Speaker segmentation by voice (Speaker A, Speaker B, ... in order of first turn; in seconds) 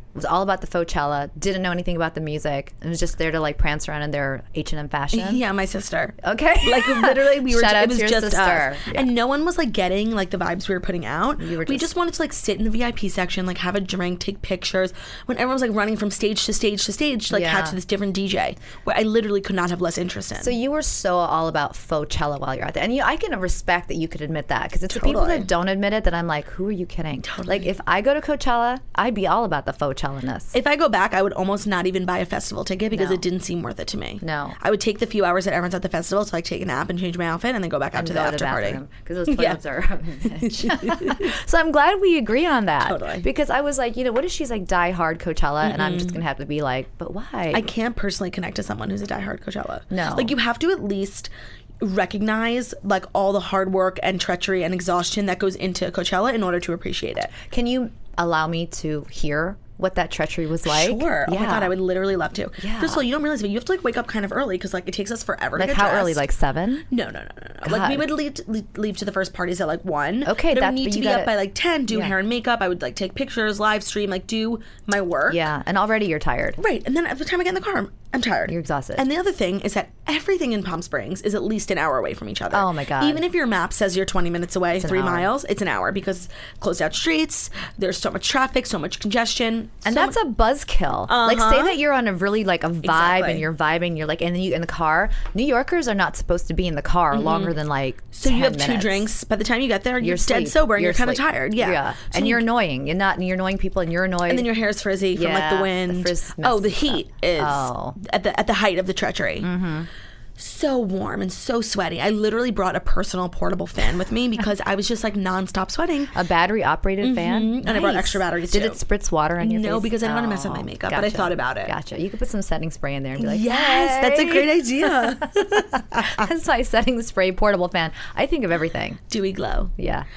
Speaker A: 0.1-5.4, 6.2-9.1, 11.4-11.9, 17.3-17.8, 20.4-30.6, 32.9-33.2, 34.2-34.6, 38.0-47.7, 49.9-50.3, 57.4-61.8, 62.6-63.0, 65.6-66.9, 67.7-68.1, 70.2-71.3, 71.9-72.1, 75.3-76.6, 78.5-79.0, 82.5-83.2, 84.8-85.3, 89.8-99.1, 100.0-104.5, 105.1-108.0, 109.4-109.9, 116.1-129.0, 129.8-130.1
Speaker B: 5.1-20.6, 24.9-25.5, 27.3-27.6, 30.5-39.6, 40.4-41.3, 42.8-43.3, 45.6-46.2, 47.5-57.3, 60.6-66.2, 66.9-75.4, 76.6-90.2, 91.1-91.8, 92.8-93.4, 97.1-97.5, 98.1-102.4, 104.3-109.5, 110.4-116.1, 117.0-118.8, 119.4-121.7, 123.2-126.2, 129.1-129.7